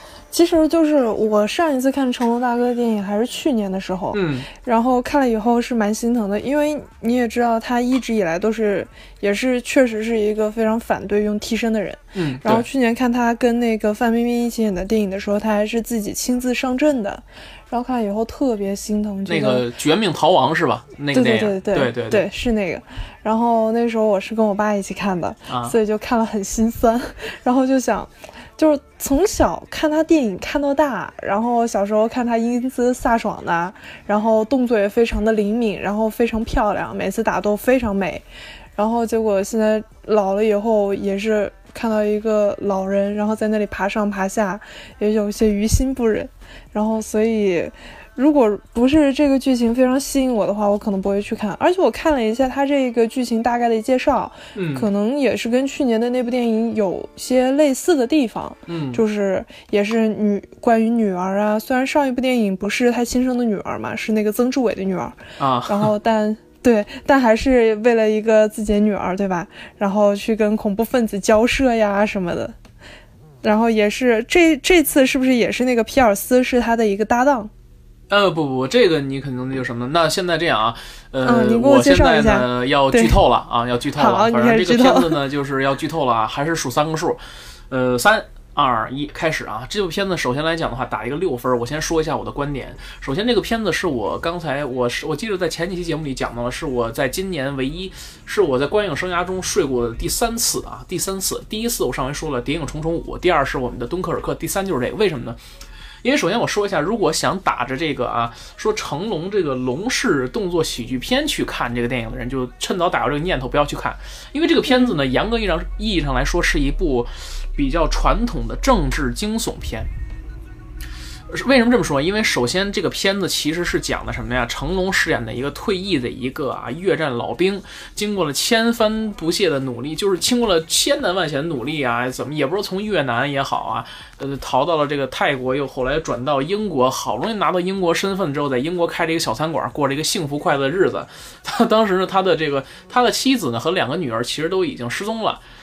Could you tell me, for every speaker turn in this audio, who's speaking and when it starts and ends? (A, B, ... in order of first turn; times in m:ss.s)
0:00.3-0:19.6 A
0:04.1-0:04.5 B
0:12.1-0:12.6 B
0:19.3-0:22.3 B
0:21.1-0:38.2 A
0:25.5-0:25.8 B
0:38.8-1:12.6 A
0:54.5-0:54.9 B
0:58.7-0:59.0 B
1:05.4-1:05.9 B
1:13.4-1:17.5 A
1:18.1-1:45.4 B
1:21.2-1:23.2 A
1:24.0-1:25.2 A
1:46.0-1:59.9 B
1:54.7-1:54.9 A
2:01.3-2:25.4 B